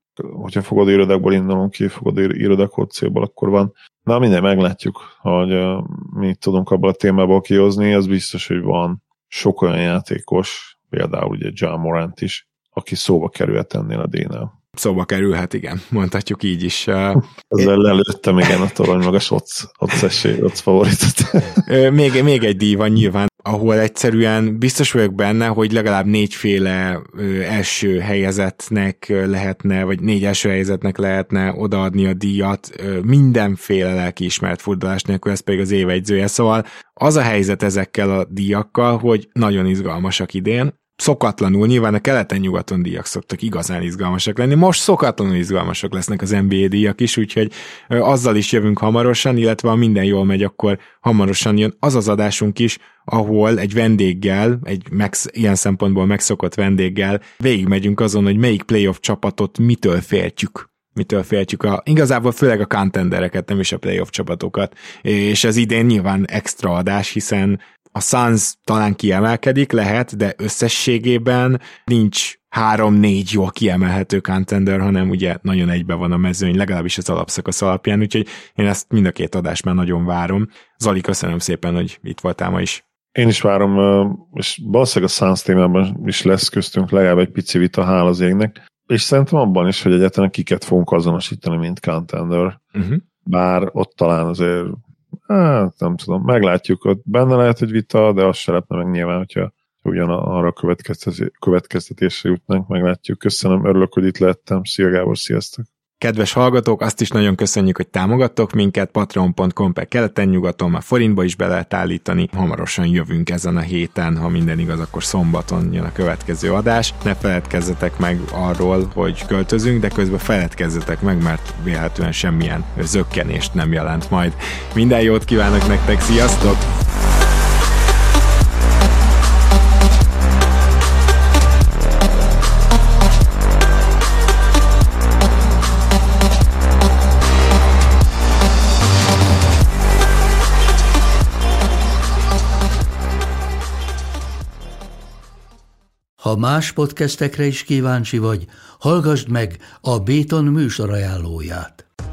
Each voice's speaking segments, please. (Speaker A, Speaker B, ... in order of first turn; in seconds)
Speaker A: 0.2-14.5, 17.5-21.6, 83.2-92.6, 93.3-105.7
Speaker B: 14.8-17.7, 21.6-82.8, 92.8-93.0, 106.0-126.7
Speaker C: 146.2-151.8